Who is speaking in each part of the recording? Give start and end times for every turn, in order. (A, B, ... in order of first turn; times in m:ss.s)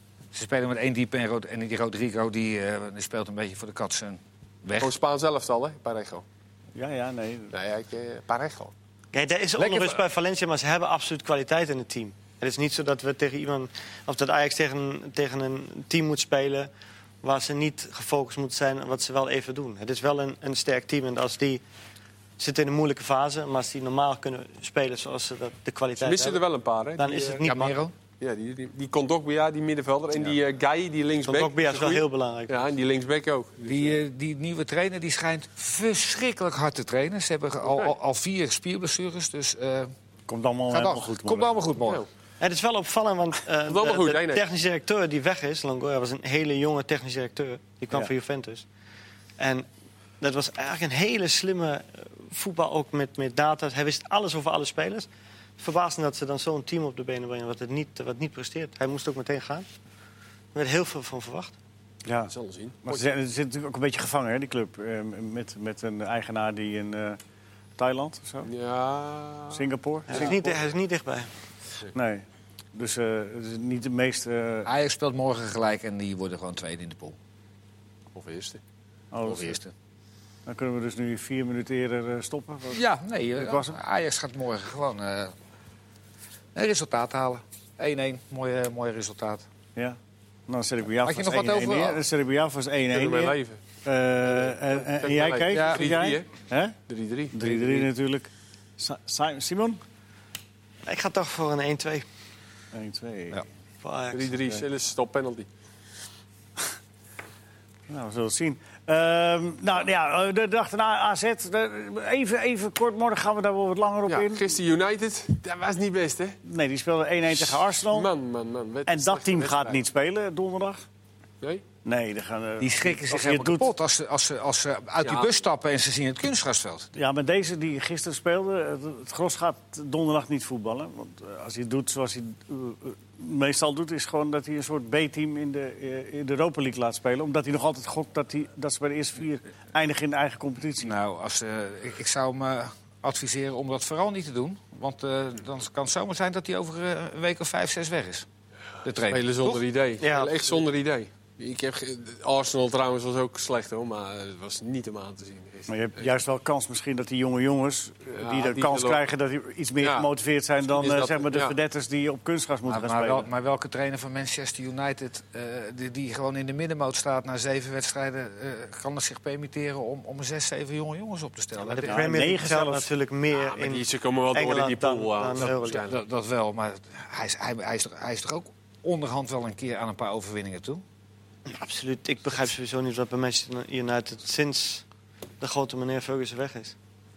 0:00.3-0:04.9 A
0:04.8-0:06.2 B
0:06.8-0:07.5 C
0:07.5-0:08.7 B
0:09.1-0:16.7 D
0:09.6-0:10.0 A
0:17.2-0:21.6 D
0:22.4-0:26.4 D
0:26.0-0:27.5 B
0:27.0-0:27.8 D
0:27.4-0:27.9 A
0:28.2-0:33.9 B
0:31.3-0:32.6 D
0:33.6-0:39.9 A
0:40.3-0:41.5 C
0:40.7-0:42.0 A
0:42.4-0:48.6 D
0:43.6-0:44.4 B
0:49.4-0:49.7 D
0:50.2-0:55.1 D
0:55.6-0:59.6 D
1:00.5-1:01.5 D
1:02.0-1:02.3 C
1:02.3-1:03.1 B
1:02.8-1:07.2 C
1:07.8-1:08.5 C
1:08.5-1:10.4 B
1:09.5-1:10.5 C
1:10.1-1:11.3 D
1:11.9-1:14.7 C
1:14.6-1:17.2 A
1:18.1-1:18.6 B
1:19.1-1:19.6 C
1:19.2-1:19.7 A
1:20.5-1:22.8 C
1:22.7-1:25.3 A
1:23.4-1:23.8 C
1:26.6-1:29.4 A
1:29.8-1:36.8 C
1:31.0-1:32.0 A
1:32.9-1:33.6 B
1:34.3-1:36.3 B
1:35.5-1:35.9 A
1:36.9-1:37.9 B
1:37.3-1:39.8 C
1:40.9-1:42.0 D
1:42.7-1:43.4 C
1:43.8-1:44.6 D
1:44.1-1:45.5 B
1:47.9-1:54.5 C
1:54.1-1:56.4 B
1:56.4-1:58.1 C
1:57.3-1:59.8 B
1:58.9-2:00.8 C
2:01.8-2:03.7 C
2:02.6-2:06.9 A
2:05.0-2:05.3 B
2:06.9-2:20.9 C
2:20.8-2:28.3 A
2:28.8-2:29.6 A
2:29.1-2:36.0 B
2:30.0-2:30.6 D
2:35.7-2:43.3 C
2:38.1-2:39.0 B
2:39.8-2:40.1 B
2:40.6-2:41.5 B
2:42.7-2:52.1 A
2:51.6-2:55.9 D
2:51.9-2:52.9 C
2:53.3-2:56.0 B
2:55.8-3:00.8 A
3:01.5-3:04.8 D
3:05.4-3:06.8 D